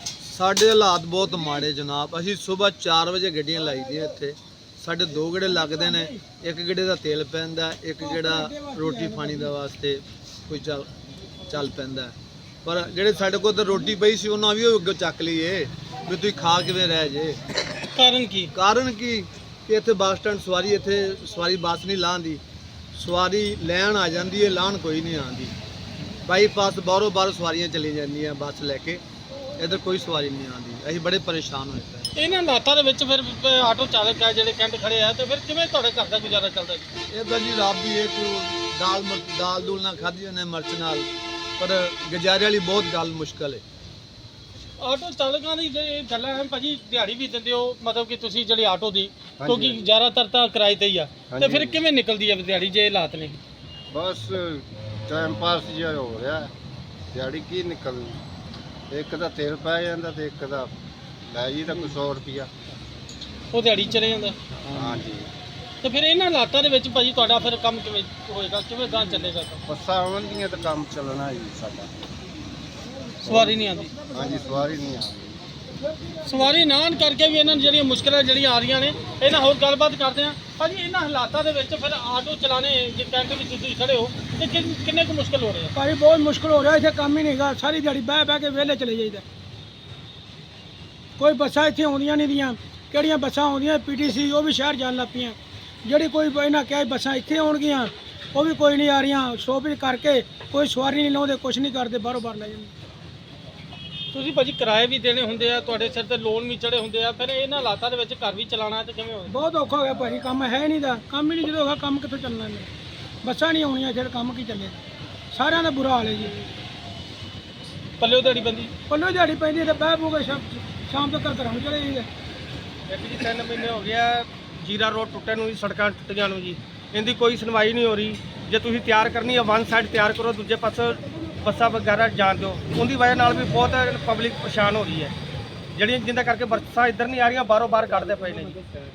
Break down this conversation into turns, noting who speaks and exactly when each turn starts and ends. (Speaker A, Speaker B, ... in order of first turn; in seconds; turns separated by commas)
Speaker A: 0.2-10.9, Speaker B: 8.0-9.5, Speaker A: 11.5-12.1, Speaker A: 12.7-17.4, Speaker C: 18.0-18.5, Speaker A: 18.5-22.4, Speaker A: 22.9-25.5, Speaker A: 26.2-29.0, Speaker A: 29.6-32.1, Speaker C: 32.2-36.9, Speaker A: 37.1-41.1, Speaker A: 41.6-43.6, Speaker C: 44.8-53.4, Speaker D: 49.4-49.8, Speaker D: 51.3-51.8, Speaker D: 53.9-56.5, Speaker D: 57.1-58.2, Speaker D: 58.9-60.7, Speaker D: 61.3-62.5, Speaker C: 63.5-64.4, Speaker D: 64.7-65.3, Speaker C: 65.8-69.6, Speaker D: 69.7-71.9, Speaker C: 73.2-74.0, Speaker D: 73.3-73.6, Speaker D: 74.1-75.4, Speaker C: 76.2-85.7, Speaker B: 85.8-89.2, Speaker B: 91.2-95.4, Speaker B: 95.9-102.7, Speaker C: 104.1-109.4, Speaker B: 109.4-112.7, Speaker B: 113.3-114.8, Speaker B: 115.4-116.2, Speaker C: 118.0-118.7, Speaker B: 118.9-122.1, Speaker E: 122.9-135.1, Speaker E: 135.8-138.6